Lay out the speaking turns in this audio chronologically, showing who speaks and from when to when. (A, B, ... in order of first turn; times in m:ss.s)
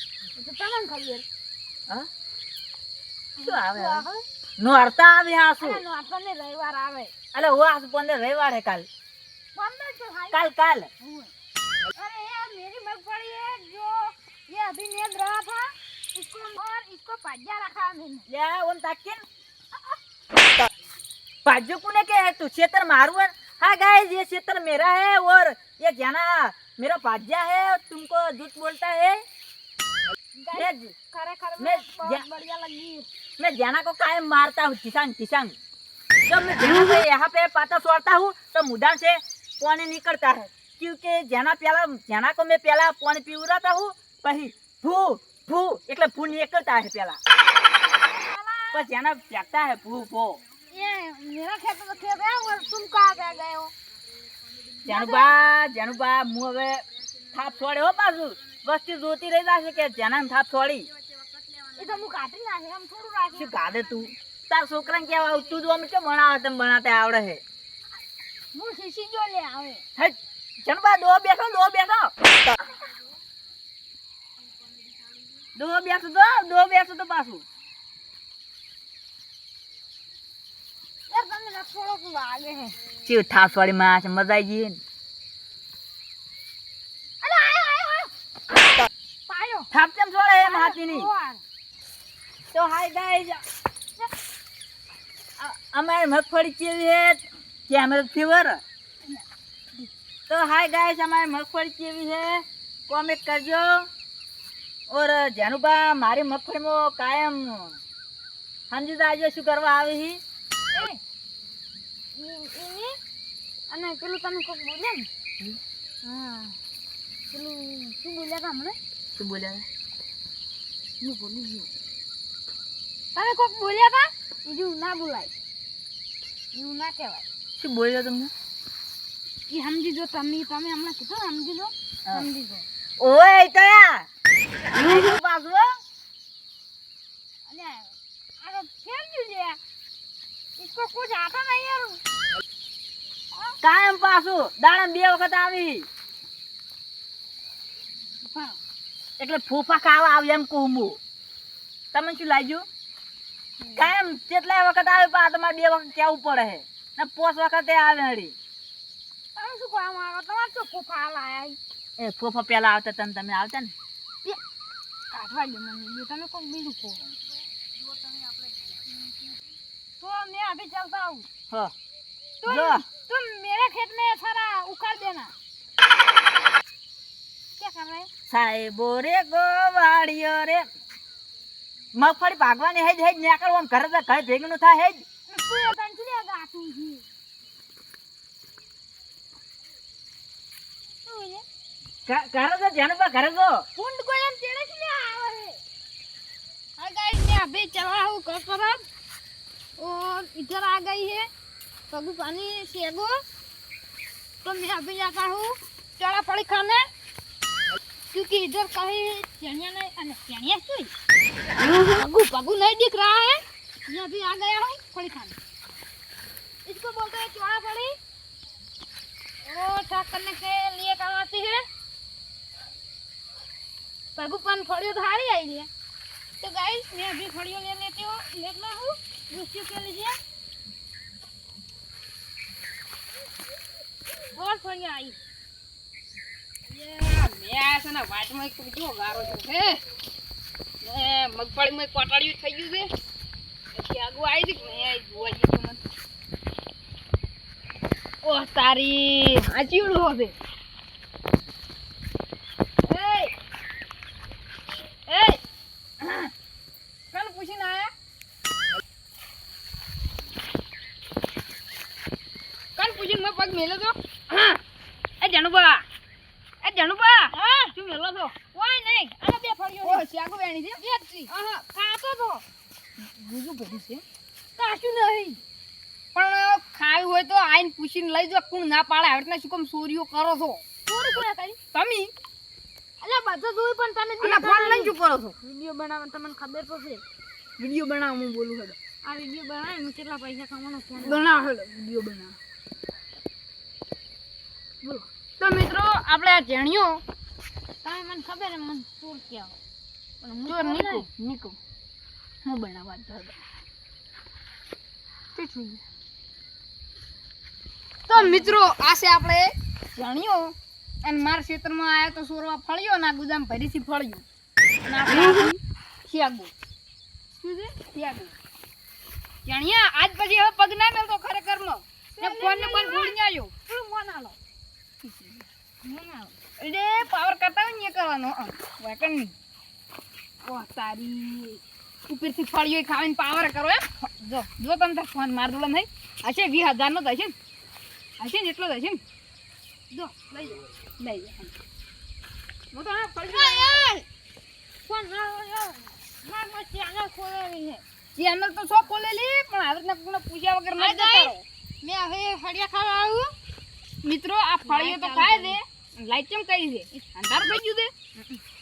0:00.3-0:01.2 A
0:03.4-0:04.2 A
0:03.4-0:04.0 B
0:04.6-0:05.8 B
0:05.6-0:07.1 A
0:07.3-0:08.9 B
0:09.5-0:10.4 A
0:10.3-0:10.9 B
0:11.0-0:11.3 A
0:11.9-0:18.3 A
0:18.3-0:19.2 B
0:21.4-0:29.2 B
0:30.4-0:33.0 A
0:30.5-0:30.9 B
0:31.6-0:32.2 B
0:33.4-0:35.6 B
0:36.3-0:47.2 B
0:47.9-0:48.9 A
0:48.7-0:50.4 B
0:50.7-0:53.7 A
0:54.8-1:00.9 B
0:54.8-0:55.3 A
1:01.8-1:03.8 A
1:03.3-1:07.4 B
1:08.5-1:09.8 A
1:10.0-1:12.1 B
1:15.6-1:17.4 B
1:21.1-1:22.8 A
1:23.0-1:24.8 B
1:27.2-1:28.1 A
1:29.3-1:29.7 A
1:29.7-1:31.1 B
1:30.4-1:31.4 A
1:32.5-1:33.4 B
1:35.4-1:38.6 B
1:40.3-1:43.9 B
1:44.9-1:47.8 B
1:48.7-1:50.2 B
1:50.7-1:51.0 A
1:52.1-1:52.9 A
1:53.7-1:55.1 A
1:56.0-1:56.6 A
1:57.3-1:58.8 A
1:59.2-1:59.6 B
2:01.0-2:01.7 A
2:03.1-2:05.3 A
2:06.5-2:07.2 A
2:07.6-2:08.3 B
2:09.5-2:12.6 A
2:13.0-2:14.1 B
2:14.7-2:15.8 B
2:17.5-2:19.6 A
2:20.6-2:22.0 A
2:23.6-2:25.9 B
2:28.3-2:28.6 A
2:29.2-2:31.0 B
2:31.9-2:32.6 B
2:33.6-2:33.9 A
2:33.7-2:38.3 B
2:39.4-2:41.6 A
2:42.0-2:43.7 B
2:45.1-2:47.0 A
2:50.0-2:51.3 A
2:52.4-2:55.3 A
2:52.4-2:52.8 B
2:57.6-2:58.1 A
2:58.3-3:00.7 B
3:01.9-3:05.0 B
3:05.3-3:07.0 A
3:11.0-3:11.4 A
3:12.1-3:13.6 B
3:13.8-3:15.6 A
3:16.8-3:18.8 A
3:19.8-3:21.3 A
3:21.9-3:23.2 A
3:24.4-3:26.9 A
3:28.1-3:30.9 A
3:31.7-3:35.4 A
3:36.6-3:38.0 A
3:39.4-3:41.6 A
3:44.2-3:45.7 A
3:46.4-3:50.2 A
3:54.3-3:55.2 A
3:56.7-3:59.8 C
4:00.8-4:02.9 C
4:03.7-4:05.8 C
4:08.2-4:10.3 C
4:12.8-4:13.3 C
4:15.1-4:15.4 C
4:16.0-4:16.3 C
4:17.1-4:17.9 C
4:22.8-4:24.6 C
4:25.2-4:25.8 C
4:26.6-4:28.6 C
4:27.4-4:27.7 A
4:28.6-4:30.0 A
4:29.7-4:30.8 C
4:30.8-4:32.4 A
4:33.1-4:34.0 C
4:34.6-4:35.4 A
4:36.1-4:40.6 C
4:40.8-4:41.6 A
4:41.7-4:42.1 C
4:43.0-4:47.0 A
4:44.2-4:45.4 C
4:47.6-4:48.8 C
4:49.0-4:51.3 A
4:51.0-4:52.4 C
4:54.8-4:57.0 C
4:57.8-4:59.6 A
5:00.2-5:01.1 A
5:00.5-5:01.6 C
5:02.4-5:03.4 C
5:05.3-5:05.8 C
5:08.1-5:14.2 C
5:08.1-5:08.6 A
5:14.8-5:16.5 C
5:15.1-5:15.4 A
5:17.4-5:18.3 C
5:19.4-5:23.5 C
5:22.2-5:24.4 A
5:25.0-5:25.4 C
5:25.8-5:26.4 A
5:26.6-5:29.3 C
5:30.4-5:37.3 C
5:38.2-5:39.0 C
5:40.2-5:41.5 C
5:42.7-5:43.9 C
5:43.2-5:44.0 A
5:44.8-5:47.8 A
5:48.1-5:51.4 C
5:50.8-5:53.3 A
5:54.0-5:57.9 C
5:54.6-5:55.6 A